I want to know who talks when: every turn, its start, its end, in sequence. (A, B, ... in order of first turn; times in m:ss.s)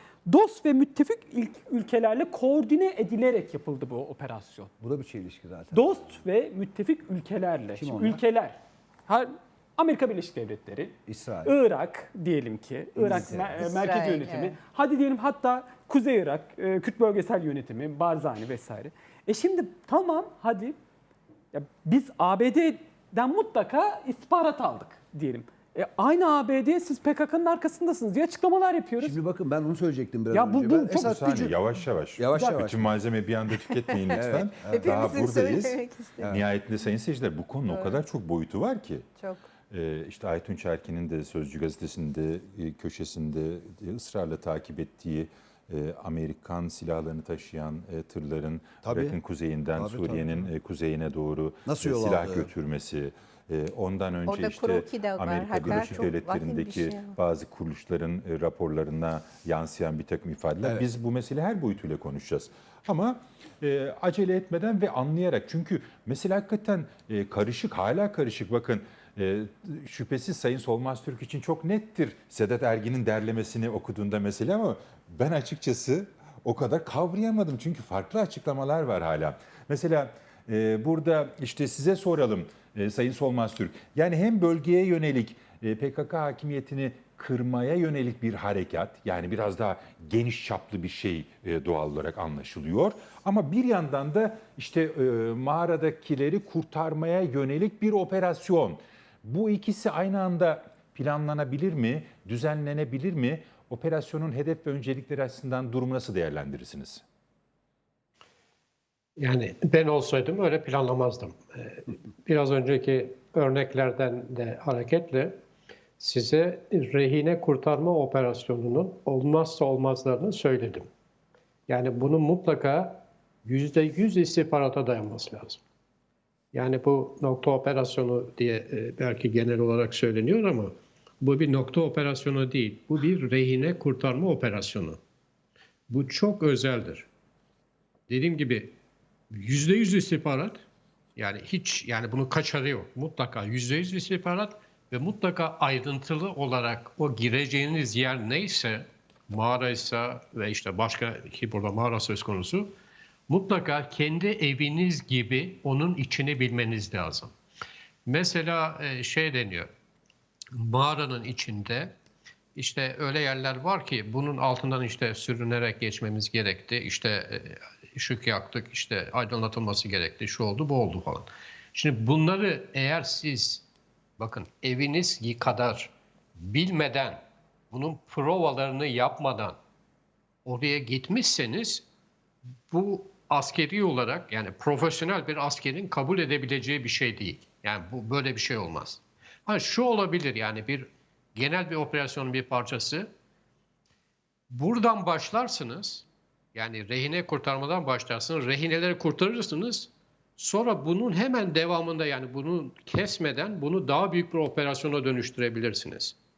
0:00.2-0:04.7 A
0:04.8-0:06.2 B
0:05.7-0:20.8 A
0:07.8-0:08.2 B
0:11.0-0:11.6 B
0:13.0-0:13.8 B
0:13.6-0:14.6 C
0:21.5-0:29.2 A
0:29.0-0:31.5 B
0:30.3-0:31.5 A
0:30.9-0:39.1 D
0:32.2-0:33.0 B
0:32.3-0:32.6 A
0:33.9-0:36.4 C
0:34.1-0:35.2 B
0:37.7-0:38.0 C
0:39.2-0:39.4 C
0:39.7-1:47.0 D
0:48.8-0:49.2 B
0:49.7-0:50.5 B
0:51.6-0:52.5 B
0:54.2-0:57.1 C
0:55.6-0:56.0 B
1:49.2-1:55.3 E
1:56.0-2:00.9 E
2:01.7-2:05.6 E
2:06.5-2:15.0 E
2:15.9-2:17.1 E
2:18.1-2:18.7 E
2:19.3-2:20.6 E
2:21.2-2:32.7 E
2:33.3-2:37.3 E
2:38.0-2:39.7 E
2:40.6-2:41.9 E
2:42.6-2:53.6 E
2:54.2-2:57.2 E
2:57.7-2:59.6 E
3:00.4-3:01.8 E
3:02.7-3:13.1 E
3:14.5-3:26.2 E